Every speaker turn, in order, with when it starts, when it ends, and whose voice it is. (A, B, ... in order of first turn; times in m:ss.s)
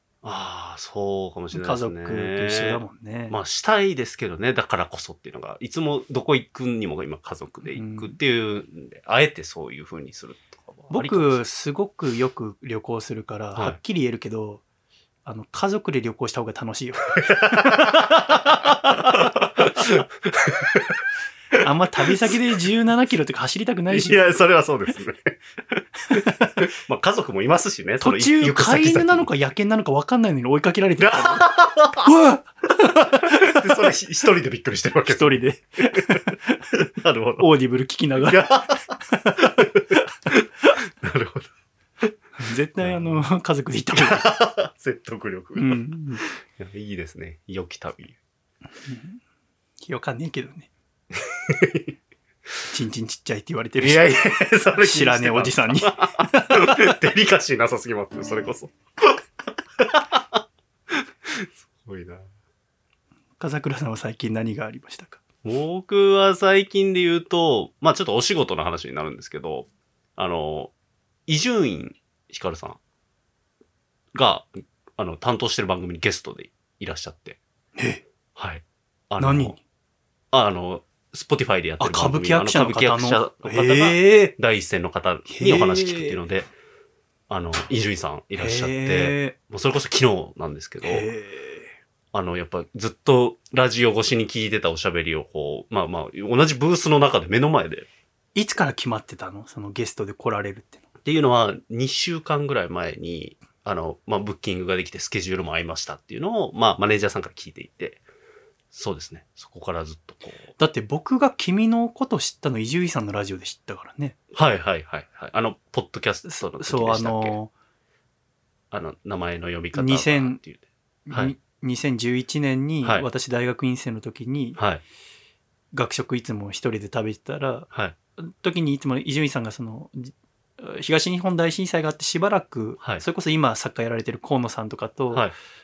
0:00.2-0:11.4 A
0:01.5-0:03.4 B
0:07.7-0:08.2 B
0:10.9-0:14.6 B
0:15.2-0:19.9 B
0:17.2-0:21.0 A
0:21.6-0:24.2 B
0:23.9-0:29.3 A
0:26.1-0:26.6 B
0:28.0-0:33.9 B
0:31.0-0:32.1 A
0:33.1-0:37.5 A
0:35.0-0:36.7 B
0:37.4-0:40.8 B
0:38.2-0:41.5 A
0:42.4-0:44.3 B
0:42.8-0:43.1 A
0:43.9-0:48.2 A
0:45.6-0:46.2 B
0:48.8-0:49.2 B
0:49.8-0:50.7 B
0:51.1-0:51.9 A
0:52.7-0:57.0 B
0:53.8-0:59.2 A
0:59.8-1:02.2 A
1:03.4-1:05.2 B
1:05.4-1:10.7 A
1:11.3-1:12.8 A
1:14.1-1:17.4 A
1:17.8-1:18.0 B
1:18.4-1:19.5 A
1:19.2-1:19.6 B
1:20.3-1:26.5 A
1:21.8-1:24.3 B
1:25.3-1:26.2 B
1:27.3-1:31.1 A
1:28.4-1:29.3 B
1:30.8-1:31.7 B
1:32.1-1:37.9 A
1:38.4-1:40.8 B
1:41.0-1:48.0 A
1:48.7-1:50.5 A
1:50.6-1:54.2 B
1:54.3-1:57.3 A
1:56.3-1:57.5 B
1:58.7-2:01.3 A
1:59.7-2:00.4 B
2:01.1-2:04.6 B
2:04.6-2:04.8 A
2:05.7-2:15.3 B